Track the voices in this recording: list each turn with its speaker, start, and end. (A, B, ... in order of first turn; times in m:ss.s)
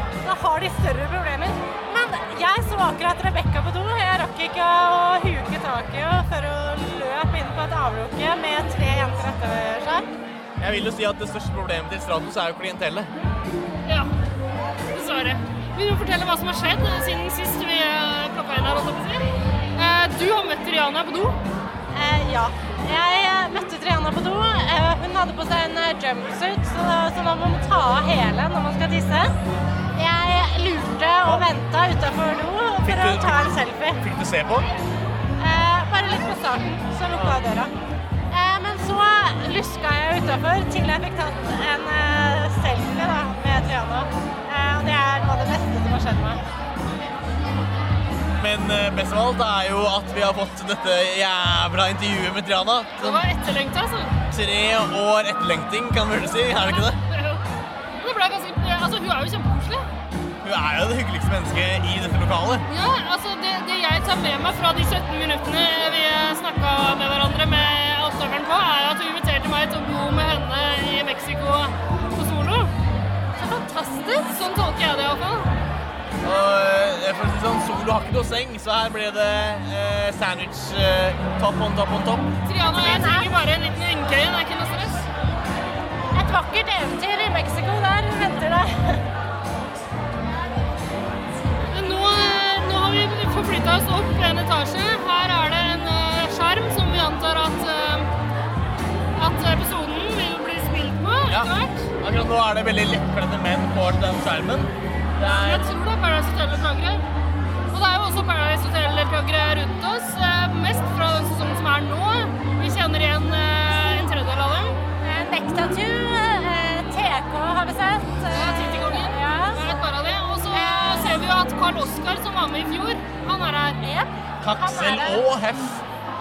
0:00.2-0:10.1 A
0:10.6-0:13.1 B
0:14.9-0:19.2 C
0:19.8-0:21.4 C
0:21.9-0:29.4 A
0:30.0-0:34.0 A
0:32.8-0:34.7 B
0:35.4-0:37.7 A
0:37.1-0:37.4 B
0:38.3-0:46.4 A
0:48.4-0:53.2 B
0:53.0-0:54.2 C
0:54.3-0:57.0 B
0:56.7-0:57.4 C
0:58.0-0:59.9 C
1:00.4-1:02.7 B
1:02.7-1:12.7 C
1:13.4-1:14.2 A
1:13.7-1:15.5 C
1:16.2-1:22.3 B
1:22.5-1:25.1 C
1:22.7-1:23.4 A
1:26.1-1:29.0 A
1:31.7-1:38.1 C
1:39.2-1:41.9 C
1:41.3-1:45.7 B
1:45.2-1:47.0 C
1:47.7-1:54.8 C
1:55.0-1:59.6 A
1:58.3-2:03.8 C
2:00.5-2:01.2 A
2:03.8-2:05.2 A
2:04.4-2:05.8 B